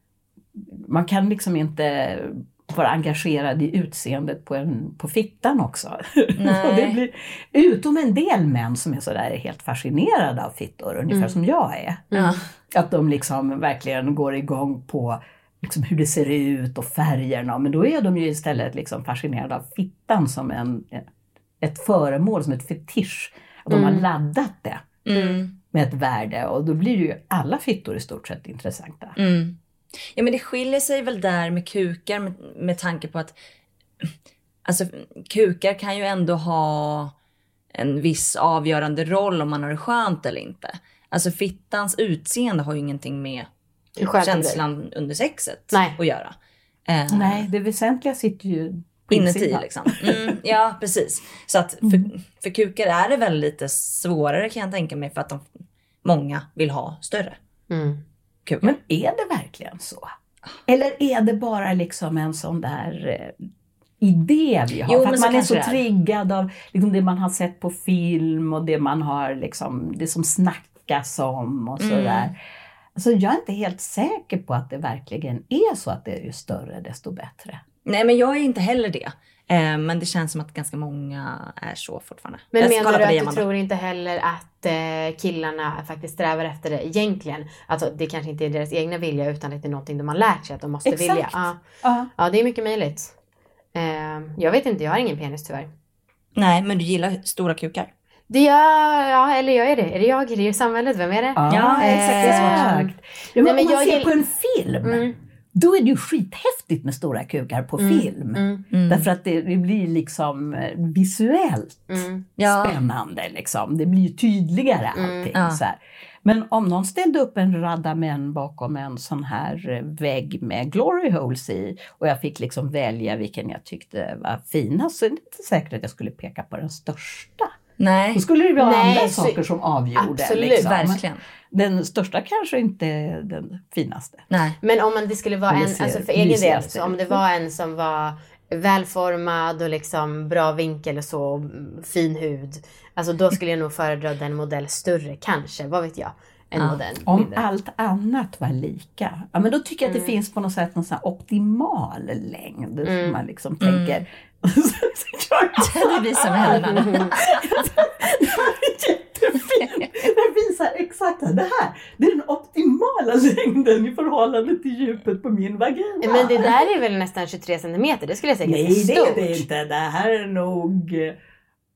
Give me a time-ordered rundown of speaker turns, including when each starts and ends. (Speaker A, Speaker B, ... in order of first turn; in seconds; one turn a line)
Speaker A: 0.6-12.1
Speaker B: 6.4-7.0
Speaker C: 11.1-11.3
Speaker C: 12.1-12.4
Speaker B: 12.1-12.4
Speaker A: 12.7-21.1
Speaker A: 21.6-24.9
Speaker C: 23.7-24.0
Speaker B: 25.0-25.5
Speaker C: 25.1-25.4
Speaker A: 25.7-29.2
Speaker B: 29.2-29.6
Speaker B: 30.1-33.4
Speaker B: 34.6-37.1
Speaker B: 37.7-43.5
Speaker C: 44.0-44.6
Speaker B: 44.2-46.3
Speaker C: 45.7-46.0
Speaker B: 46.9-47.4
Speaker A: 47.1-50.4
Speaker B: 49.1-57.4
Speaker C: 57.7-58.0
Speaker A: 58.6-60.1
Speaker A: 60.7-63.4
Speaker A: 64.0-72.4
Speaker B: 64.8-65.8
Speaker B: 71.8-72.3
Speaker A: 72.9-77.6
Speaker B: 77.8-83.5
Speaker C: 82.5-91.6
Speaker A: 90.8-92.1
Speaker C: 92.2-93.1
Speaker C: 93.7-95.7
Speaker B: 96.3-97.9
Speaker C: 98.3-102.9
Speaker A: 101.3-127.6
Speaker B: 101.5-102.7
Speaker C: 103.4-104.2
Speaker C: 104.8-105.2
Speaker C: 107.8-108.6
Speaker B: 108.7-109.1
Speaker C: 111.9-112.2
Speaker B: 112.4-112.8
Speaker C: 115.0-115.3
Speaker B: 115.3-115.6
Speaker B: 127.8-128.2
Speaker A: 128.1-134.2
Speaker C: 128.6-129.4
Speaker C: 129.9-130.7
Speaker B: 130.6-131.2
Speaker B: 134.3-134.6
Speaker C: 134.6-147.4
Speaker A: 135.5-137.2
Speaker A: 147.1-166.6
Speaker C: 149.8-150.1
Speaker C: 152.8-153.2
Speaker B: 153.6-154.0
Speaker B: 155.6-157.6
Speaker C: 156.7-157.1
Speaker C: 166.0-169.4
Speaker A: 168.4-171.2